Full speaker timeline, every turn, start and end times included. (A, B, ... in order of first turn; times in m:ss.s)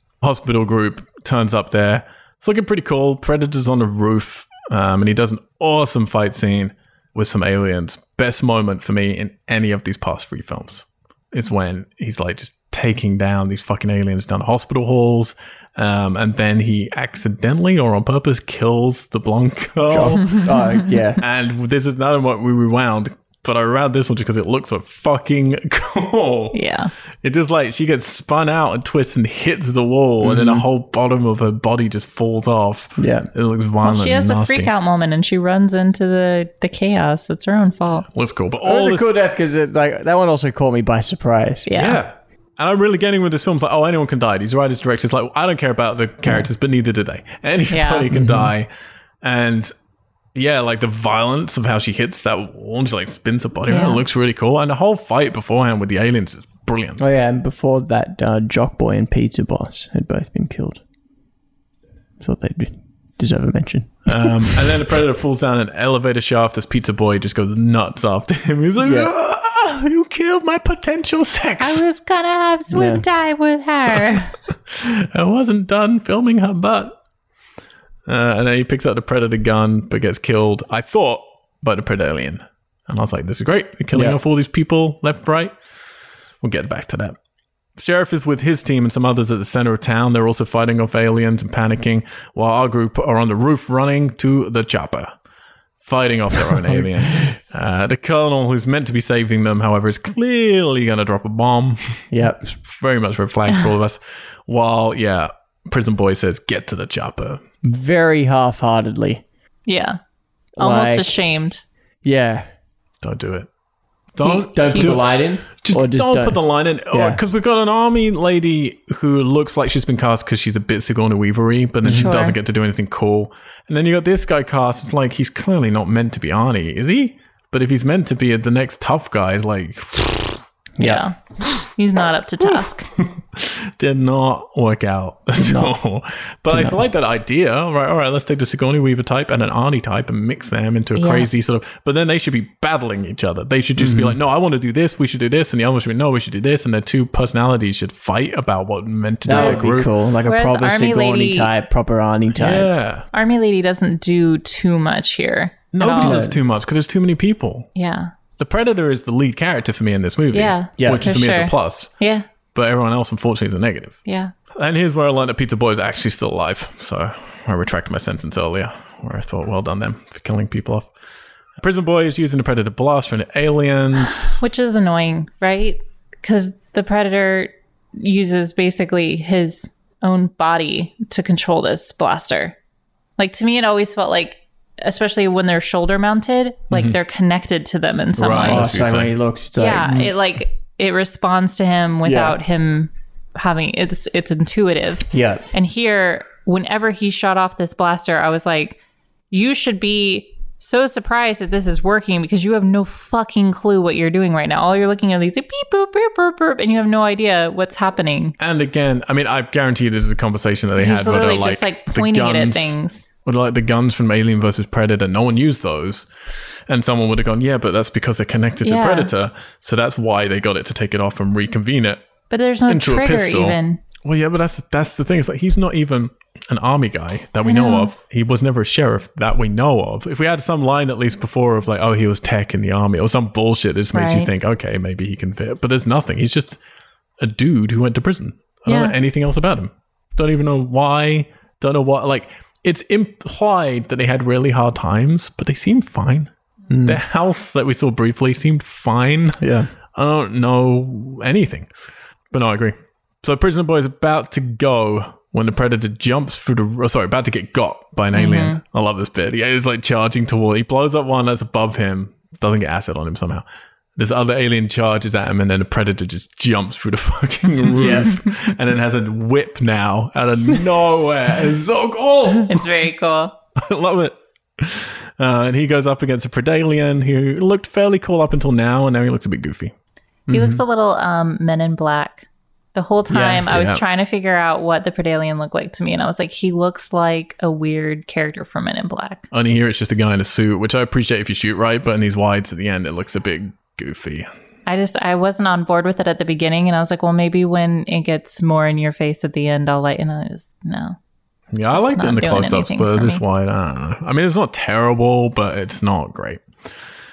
0:00.2-0:20.6 A
0:19.9-0:21.2 B
0:21.2-0:26.6 A
0:26.5-0:26.9 C
0:27.2-0:34.7 A
0:30.2-0:30.7 B
0:33.0-0:33.3 B
0:33.8-0:38.1 C
0:38.1-0:39.1 A
0:38.6-0:41.7 B
0:41.7-0:42.0 C
0:41.8-0:48.7 A
0:47.7-0:48.0 C
0:48.1-0:48.5 B
0:49.2-0:49.7 A
0:50.4-0:57.0 A
0:53.7-0:54.0 C
0:57.0-1:00.8 B
1:02.2-1:04.6 B
1:04.1-1:11.8 A
1:08.8-1:09.1 B
1:11.6-1:14.4 C
1:12.7-1:13.0 B
1:14.7-1:17.0 A
1:18.1-1:25.5 A
1:23.9-1:24.2 B
1:26.4-1:27.2 A
1:27.8-1:35.1 A
1:35.8-1:47.4 A
1:36.5-1:37.3 B
1:42.1-1:42.5 B
1:47.6-1:49.2 B
1:49.7-1:50.0 C
1:50.6-1:51.2 B
1:50.6-1:51.6 C
1:52.0-1:52.5 B
1:53.0-1:53.5 A
1:54.2-2:10.4 A
1:54.2-1:55.0 C
1:54.2-1:56.4 B
1:56.9-1:57.2 B
2:01.8-2:02.2 B
2:01.9-2:02.4 C
2:10.8-2:11.0 B
2:10.8-2:12.9 C
2:12.5-2:29.9 A
2:15.4-2:15.7 B
2:16.5-2:16.8 B
2:21.0-2:21.3 C
2:23.8-2:24.2 B
2:29.2-2:32.7 B
2:29.3-2:29.6 C
2:30.2-2:31.5 C
2:32.4-2:33.1 A
2:33.1-2:36.3 C
2:35.7-2:37.7 A
2:36.0-2:36.4 B
2:37.8-2:38.1 C
2:38.4-2:41.9 A
2:40.3-2:42.3 C
2:40.8-2:41.2 B
2:42.5-2:44.0 A
2:44.1-2:44.3 C
2:44.5-2:50.9 A
2:51.6-2:54.4 A
2:54.4-3:02.6 C
3:03.2-3:08.6 C
3:06.7-3:07.0 A
3:08.2-3:09.1 A
3:08.4-3:10.1 B
3:09.6-3:18.8 C
3:12.0-3:12.4 B
3:15.1-3:15.5 B
3:19.3-3:28.4 C
3:28.4-3:36.1 A
3:30.8-3:33.0 C
3:36.7-3:42.0 A
3:38.6-3:39.1 C
3:42.3-3:43.8 C
3:42.7-3:56.6 A
3:47.4-3:47.9 C
3:53.9-3:54.3 C
3:57.2-4:06.3 A
3:58.7-3:58.9 C
4:06.7-4:07.0 B
4:06.8-4:11.7 A
4:09.4-4:09.7 B
4:12.3-4:23.4 A
4:18.1-4:18.6 C
4:24.0-4:32.7 A
4:27.8-4:28.1 B
4:32.5-4:33.4 C
4:33.6-4:39.7 A
4:40.3-4:40.6 B
4:40.3-4:49.3 C
4:43.1-4:43.8 A
4:49.3-4:54.3 A
4:54.7-5:01.0 C
5:01.5-5:06.4 A
5:01.7-5:03.2 C